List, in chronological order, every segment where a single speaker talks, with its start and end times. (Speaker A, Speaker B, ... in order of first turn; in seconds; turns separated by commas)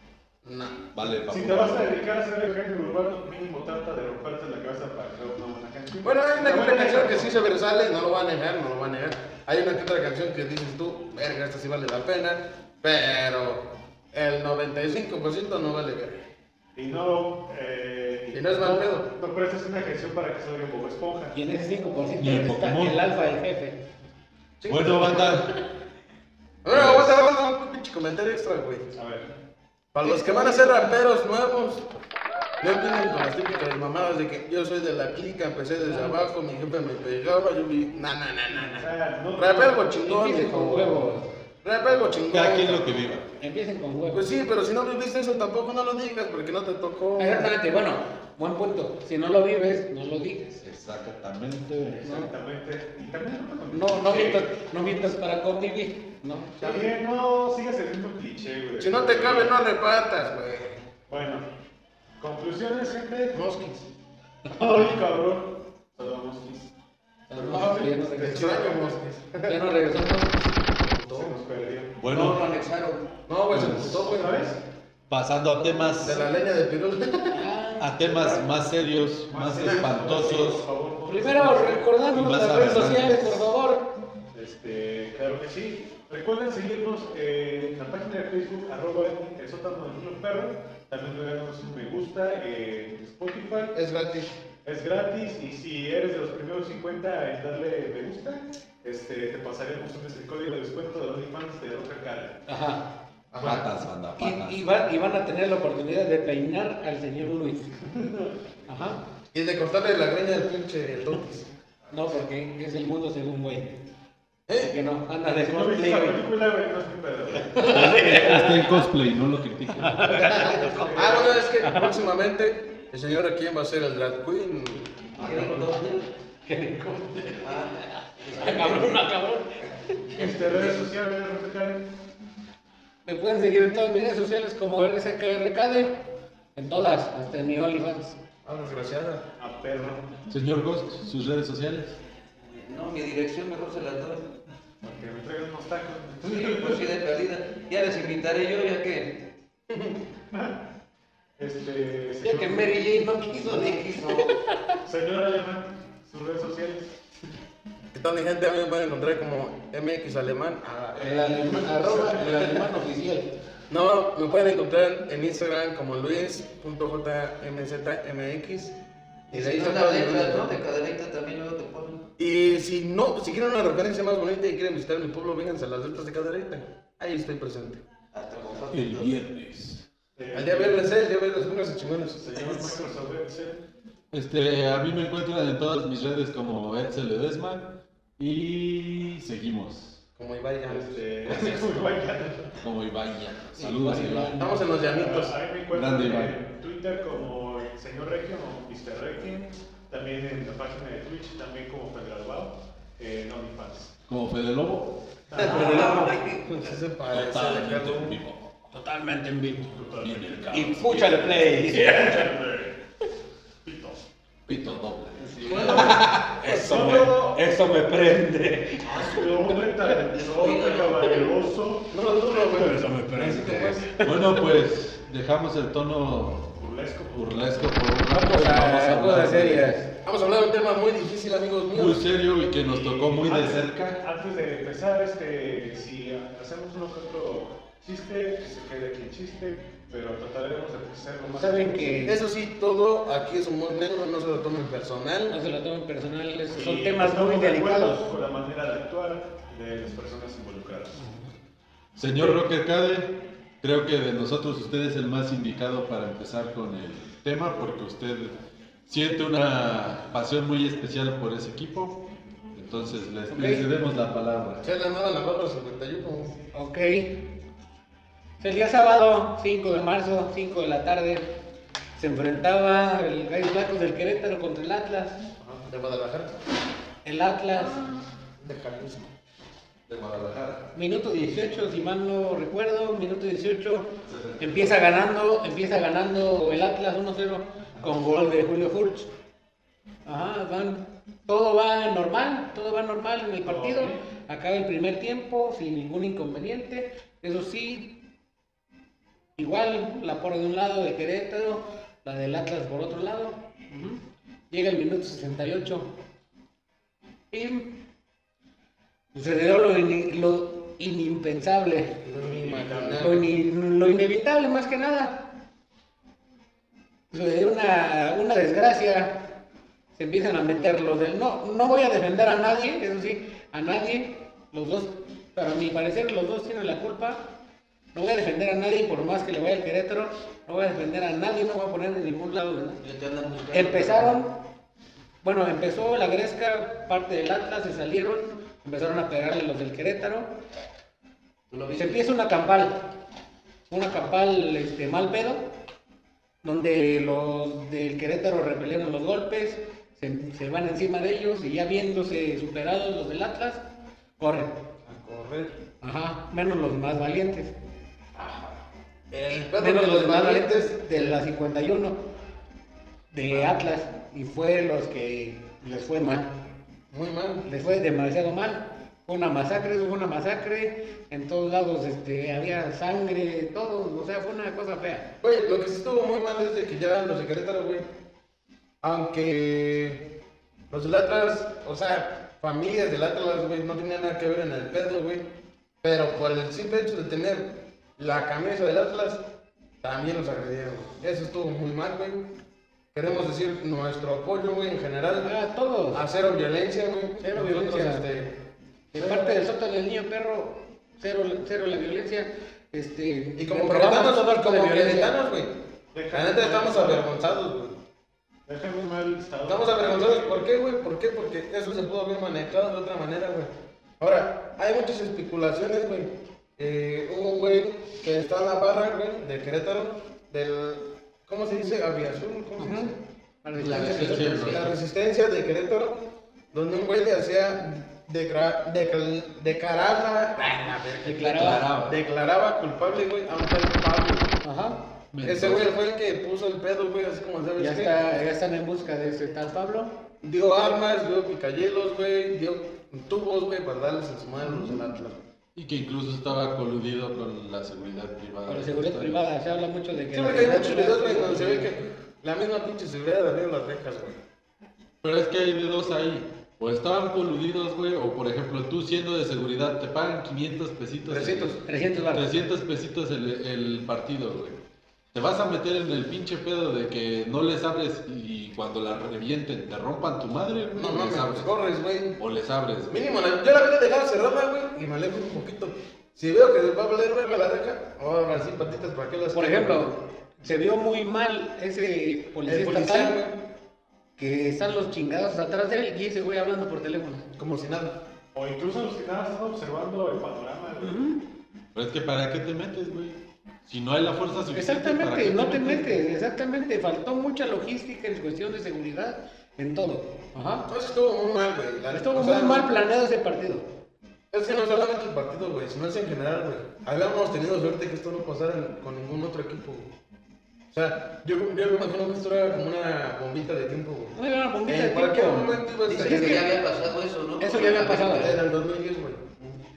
Speaker A: 0.4-0.8, Speaker B: 0.9-1.9, Speaker C: 1.3-7.3, Speaker A: 6.0-16.2, Speaker C: 16.8-21.4, Speaker A: 18.3-19.1, Speaker D: 21.3-23.8, Speaker B: 22.2-23.0, Speaker A: 24.6-25.4, Speaker B: 24.7-25.5, Speaker A: 26.6-28.9, Speaker B: 26.7-27.2, Speaker C: 28.9-29.2, Speaker A: 29.9-31.8, Speaker D: 30.0-30.9, Speaker A: 32.6-41.0, Speaker D: 35.8-36.2, Speaker C: 38.5-39.8, Speaker D: 40.0-41.2, Speaker A: 41.6-43.1, Speaker B: 42.2-43.3, Speaker D: 43.4-44.3, Speaker A: 44.1-47.5, Speaker D: 47.2-50.5, Speaker B: 50.6-52.1, Speaker C: 52.0-55.0, Speaker A: 52.0-52.3, Speaker D: 53.7-56.6, Speaker C: 56.6-59.5, Speaker A: 58.8-60.8, Speaker C: 61.1-61.4, Speaker C: 62.2-63.4, Speaker A: 63.3-63.8, Speaker C: 64.5-66.7, Speaker D: 64.5-65.0, Speaker D: 67.3-68.7, Speaker C: 67.4-68.9, Speaker A: 67.5-69.6, Speaker D: 69.4-70.5, Speaker A: 70.9-71.4, Speaker C: 70.9-72.0, Speaker B: 72.0-72.4, Speaker E: 72.1-73.2, Speaker A: 73.3-74.6, Speaker B: 73.5-74.1, Speaker C: 74.0-74.6, Speaker B: 75.1-76.2, Speaker A: 76.0-77.4, Speaker D: 77.3-78.4, Speaker B: 77.8-80.7, Speaker C: 79.3-81.9, Speaker D: 81.0-83.9, Speaker B: 82.1-83.5, Speaker C: 84.3-93.8, Speaker A: 93.7-94.3, Speaker C: 94.6-102.4, Speaker D: 102.5-102.9, Speaker A: 103.3-103.7, Speaker B: 103.4-104.6, Speaker D: 104.2-107.8, Speaker C: 107.8-108.3, Speaker D: 108.7-109.0, Speaker A: 109.3-111.5, Speaker D: 111.9-113.8, Speaker A: 114.5-114.7, Speaker D: 114.5-116.2, Speaker C: 115.3-117.8, Speaker D: 117.5-118.9, Speaker B: 117.6-120.4, Speaker D: 119.8-122.0, Speaker C: 120.1-121.5, Speaker A: 120.9-125.3, Speaker E: 125.2-126.1, Speaker C: 125.2-125.7, Speaker D: 126.5-130.7, Speaker E: 127.4-129.0, Speaker C: 130.1-131.9, Speaker D: 133.1-136.0, Speaker D: 136.6-138.2, Speaker A: 138.4-139.2, Speaker C: 139.4-140.1, Speaker B: 140.3-142.0, Speaker E: 142.5-144.3, Speaker C: 144.8-146.9, Speaker E: 146.2-149.2, Speaker A: 149.7-150.0, Speaker C: 151.4-152.9, Speaker D: 152.2-154.8, Speaker E: 153.5-154.3, Speaker C: 154.8-156.9, Speaker A: 157.9-162.8, Speaker D: 160.9-163.3, Speaker A: 163.7-168.7, Speaker A: 169.3-170.6, Speaker E: 169.3-172.1, Speaker A: 172.2-177.8, Speaker E: 178.1-179.2, Speaker B: 178.7-179.8, Speaker C: 180.2-180.8, Speaker A: 180.3-182.2, Speaker C: 182.2-183.6, Speaker B: 184.1-190.0, Speaker A: 190.2-191.6, Speaker C: 190.7-192.6, Speaker B: 191.2-191.6, Speaker B: 192.6-194.4, Speaker D: 193.6-194.7, Speaker A: 194.4-195.3, Speaker C: 194.7-203.9, Speaker B: 195.7-196.4, Speaker B: 204.1-205.0, Speaker C: 205.3-206.1, Speaker D: 205.3-206.4, Speaker A: 205.4-208.2, Speaker E: 205.6-206.4, Speaker B: 207.1-208.5, Speaker D: 208.7-209.7, Speaker C: 209.7-210.6, Speaker B: 210.0-211.8, Speaker D: 210.5-212.3, Speaker C: 211.6-212.8, Speaker C: 213.6-214.0, Speaker B: 214.5-216.0, Speaker C: 215.3-217.4, Speaker D: 215.5-220.0, Speaker E: 215.5-215.8, Speaker C: 218.8-223.8, Speaker E: 220.2-221.3, Speaker A: 221.9-223.8, Speaker D: 222.6-224.5, Speaker B: 223.3-226.5, Speaker C: 226.6-227.7, Speaker B: 227.1-229.7, Speaker D: 228.1-229.9, Speaker A: 230.0-232.0, Speaker B: 231.7-234.0, Speaker C: 232.5-242.0, Speaker D: 241.2-242.2, Speaker A: 242.0-245.3, Speaker D: 245.3-248.1, Speaker C: 246.5-251.0, Speaker D: 251.0-251.3, Speaker B: 252.0-258.3, Speaker B: 258.9-262.0, Speaker B: 262.5-264.6, Speaker D: 263.3-263.7, Speaker A: 264.6-266.4, Speaker D: 266.5-267.1, Speaker D: 268.4-271.2, Speaker D: 272.0-275.2, Speaker A: 275.6-276.3, Speaker D: 277.0-277.9, Speaker A: 278.4-279.1, Speaker B: 279.9-280.7, Speaker D: 280.7-289.1, Speaker B: 284.1-284.7, Speaker D: 290.1-297.9, Speaker C: 293.4-294.0, Speaker D: 299.4-304.0, Speaker D: 304.5-305.9, Speaker D: 307.3-307.7, Speaker D: 309.1-312.0, Speaker A: 312.0-313.3, Speaker C: 312.4-313.2, Speaker D: 312.9-315.3, Speaker D: 317.1-319.2, Speaker D: 319.9-327.2, Speaker D: 327.9-332.8, Speaker E: 332.8-334.1, Speaker D: 333.5-334.4, Speaker D: 335.2-340.3, Speaker E: 341.5-342.0, Speaker D: 341.7-342.8, Speaker D: 343.7-345.5, Speaker D: 346.4-353.6, Speaker D: 354.2-354.5, Speaker A: 354.9-355.5, Speaker D: 355.8-357.5, Speaker A: 358.2-358.4, Speaker A: 359.1-360.7, Speaker D: 359.3-362.0, Speaker D: 363.1-366.3, Speaker A: 366.9-367.4, Speaker D: 367.4-375.1, Speaker A: 375.2-377.9, Speaker A: 378.8-380.0, Speaker A: 380.7-385.2, Speaker A: 385.8-389.2, Speaker A: 389.8-392.2, Speaker A: 392.9-395.3, Speaker D: 395.2-396.0, Speaker A: 395.9-398.3, Speaker D: 397.2-398.1, Speaker D: 398.9-405.1, Speaker C: 399.0-399.3, Speaker A: 403.4-405.5, Speaker C: 405.9-407.1, Speaker A: 406.1-407.8, Speaker C: 408.5-410.4, Speaker A: 409.4-423.0, Speaker D: 422.6-422.9, Speaker D: 423.4-424.4, Speaker E: 423.6-424.7, Speaker B: 423.7-424.8, Speaker A: 423.7-434.4, Speaker D: 431.0-431.7, Speaker B: 431.2-432.0, Speaker D: 434.4-434.8, Speaker B: 435.1-435.7, Speaker A: 435.2-438.1, Speaker D: 437.6-439.9, Speaker A: 440.2-445.2, Speaker B: 444.4-444.8, Speaker B: 445.5-449.2, Speaker D: 448.5-451.7, Speaker A: 450.1-454.2, Speaker B: 455.0-461.6, Speaker A: 461.1-461.6, Speaker D: 461.6-462.3, Speaker B: 462.1-464.6, Speaker B: 465.1-471.5, Speaker A: 470.7-472.2, Speaker B: 472.2-472.9, Speaker A: 472.9-479.9, Speaker D: 479.3-483.2, Speaker A: 482.4-483.4, Speaker D: 484.2-487.2, Speaker A: 487.4-488.0, Speaker C: 488.3-491.1, Speaker D: 490.8-491.2, Speaker B: 491.7-496.0, Speaker D: 494.5-500.7, Speaker A: 500.7-502.7, Speaker D: 501.9-503.6, Speaker A: 504.3-509.9, Speaker A: 510.7-516.5, Speaker D: 514.1-516.6, Speaker E: 515.9-518.4, Speaker D: 517.4-518.4, Speaker A: 517.6-519.4